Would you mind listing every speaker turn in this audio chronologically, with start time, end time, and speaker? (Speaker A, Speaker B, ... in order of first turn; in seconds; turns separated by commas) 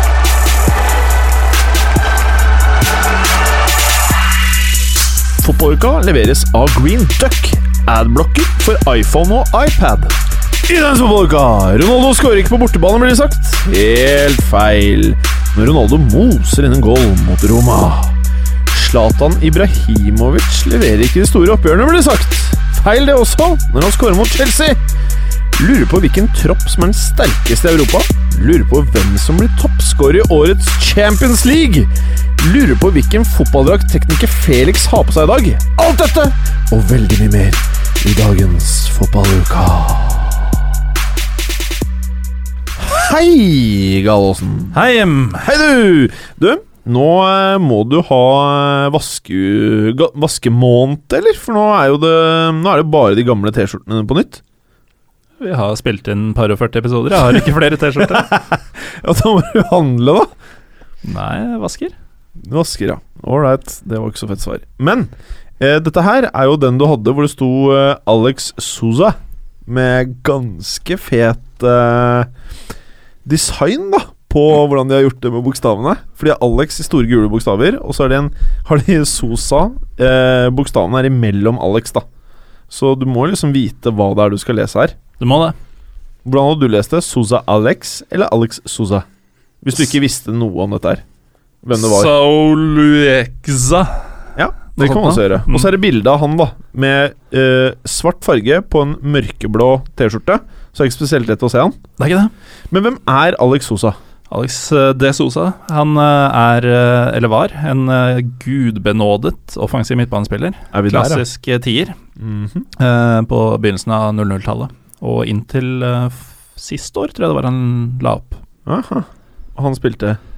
Speaker A: 5.4-18.1, Speaker A: 18.7-24.8, Speaker A: 25.6-40.6, Speaker A: 42.8-44.8, Speaker B: 44.7-45.4, Speaker A: 45.4-54.4, Speaker B: 55.4-58.3, Speaker A: 58.0-60.3, Speaker B: 61.0-61.9, Speaker A: 62.4-72.3, Speaker A: 73.2-82.0, Speaker A: 82.7-85.0, Speaker B: 85.2-85.6, Speaker A: 86.2-89.1, Speaker A: 89.6-91.0, Speaker A: 91.6-92.1, Speaker B: 91.8-94.0, Speaker A: 94.4-101.8, Speaker B: 94.8-95.7, Speaker B: 102.0-102.3, Speaker A: 102.7-104.0, Speaker B: 104.3-111.9, Speaker A: 110.7-111.2, Speaker A: 112.2-112.7, Speaker B: 112.8-118.4, Speaker A: 118.7-120.2